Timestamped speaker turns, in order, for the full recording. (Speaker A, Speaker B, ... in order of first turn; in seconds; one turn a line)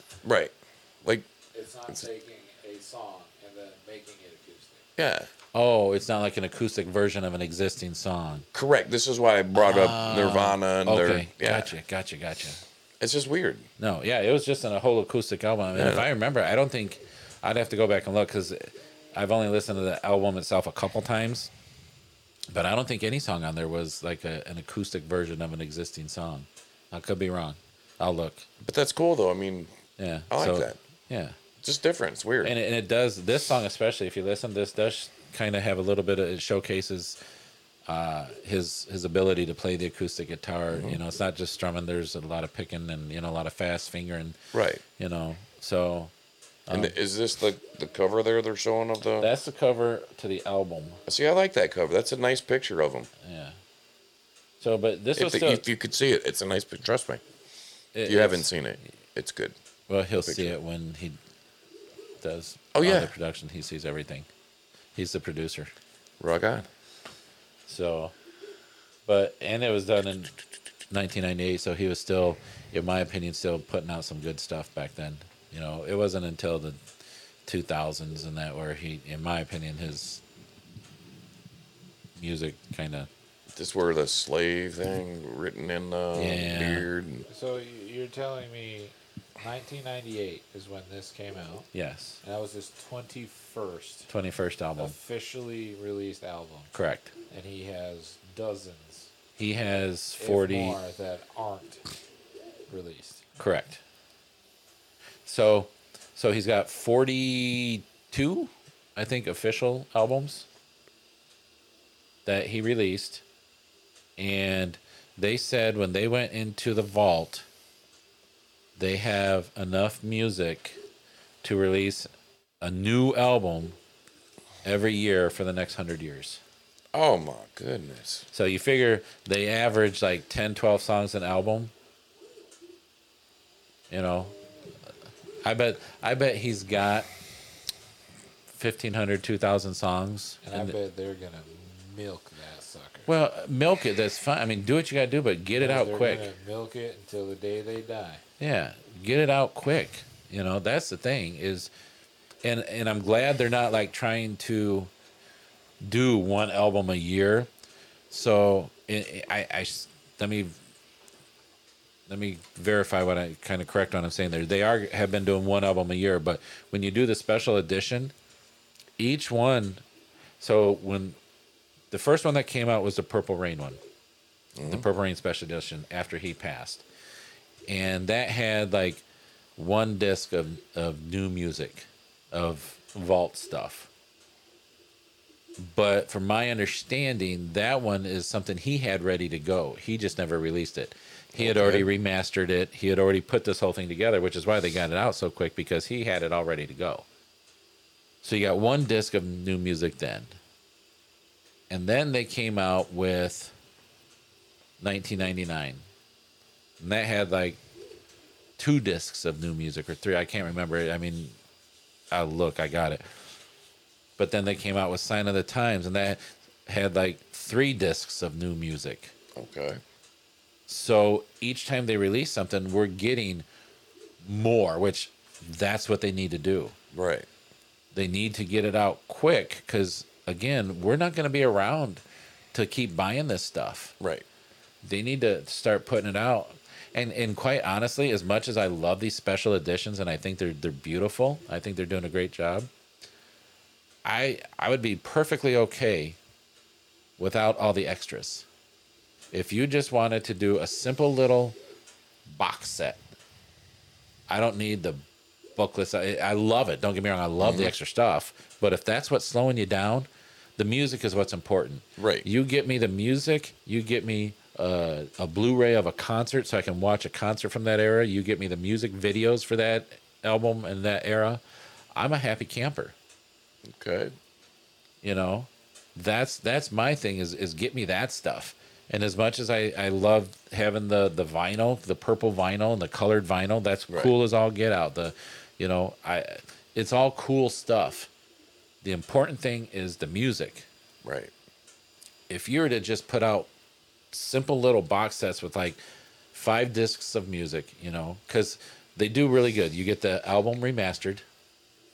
Speaker A: 0.2-1.3
Speaker B: 1.5-4.8
Speaker A: 5.0-5.3
Speaker C: 5.5-8.4
Speaker A: 8.5-11.8
Speaker C: 9.5-12.6
Speaker A: 13.0-13.7
Speaker C: 13.8-21.5
Speaker A: 15.7-16.1
Speaker C: 22.5-28.4
Speaker A: 28.6-29.7
Speaker C: 30.0-31.4
Speaker A: 30.3-30.8
Speaker A: 31.6-32.5
Speaker C: 32.4-37.2
Speaker C: 37.9-44.4
Speaker A: 40.7-41.0
Speaker A: 44.5-44.8
Speaker C: 45.0-46.1
Speaker C: 46.7-46.9
Speaker A: 46.7-49.3
Speaker C: 49.2-51.0
Speaker A: 51.0-53.1
Speaker C: 53.2-53.6
Speaker C: 54.6-55.6
Speaker A: 55.1-57.2
Speaker C: 57.9-58.5
Speaker A: 58.0-59.5
Speaker C: 59.9-61.2
Speaker A: 60.1-60.6
Speaker C: 62.2-64.3
Speaker A: 62.7-63.1
Speaker C: 64.9-65.7
Speaker A: 66.2-66.7
Speaker C: 67.7-68.1
Speaker C: 69.0-70.3
Speaker C: 70.9-76.8
Speaker C: 77.5-80.2
Speaker C: 82.2-83.1
Speaker A: 83.5-87.2
Speaker C: 86.1-86.8
Speaker B: 87.3-91.7
Speaker C: 91.7-92.2
Speaker B: 92.2-94.1
Speaker C: 94.1-94.9
Speaker B: 94.8-96.7
Speaker C: 96.7-97.1
Speaker B: 97.3-99.1
Speaker C: 99.4-100.8
Speaker B: 100.2-101.8
Speaker B: 102.7-103.2
Speaker C: 103.4-103.8
Speaker C: 105.2-110.5
Speaker C: 112.2-113.2
Speaker C: 114.2-117.5
Speaker C: 118.8-120.8
Speaker C: 121.4-122.1
Speaker C: 122.6-123.8
Speaker C: 124.6-126.4
Speaker A: 126.9-128.2
Speaker C: 128.3-131.7
Speaker C: 133.9-134.3
Speaker C: 135.4-137.1
Speaker C: 138.5-140.8
Speaker B: 140.4-143.1
Speaker C: 143.1-146.3
Speaker B: 145.6-148.2
Speaker C: 148.4-151.7
Speaker C: 152.4-154.9
Speaker C: 155.8-157.5
Speaker C: 158.1-160.6
Speaker C: 162.1-168.1
Speaker C: 169.0-169.8
Speaker C: 170.4-171.2
Speaker C: 171.9-173.8
Speaker A: 174.6-174.8
Speaker C: 174.6-176.8
Speaker C: 177.7-179.0
Speaker C: 179.6-183.9
Speaker C: 185.6-197.1
Speaker A: 191.3-191.9
Speaker C: 198.2-200.3
Speaker C: 201.7-203.5
Speaker C: 204.8-205.8
Speaker C: 206.8-207.6
Speaker C: 208.6-211.3
Speaker C: 212.1-213.0
Speaker C: 214.2-219.1
Speaker A: 219.3-219.8
Speaker C: 220.7-223.4
Speaker C: 224.2-226.7
Speaker A: 226.9-227.3
Speaker C: 227.9-233.9
Speaker A: 234.0-234.2
Speaker C: 234.8-242.7
Speaker C: 244.0-246.2
Speaker C: 247.2-248.5
Speaker C: 249.3-251.6
Speaker C: 252.3-253.0
Speaker C: 254.3-255.0
Speaker C: 255.6-271.4
Speaker A: 257.4-257.7
Speaker A: 262.0-262.3
Speaker C: 271.9-272.9
Speaker A: 273.7-274.1
Speaker C: 275.0-288.1
Speaker C: 288.8-290.7
Speaker A: 291.0-291.3
Speaker C: 292.3-293.5
Speaker C: 294.1-295.8
Speaker C: 296.3-301.2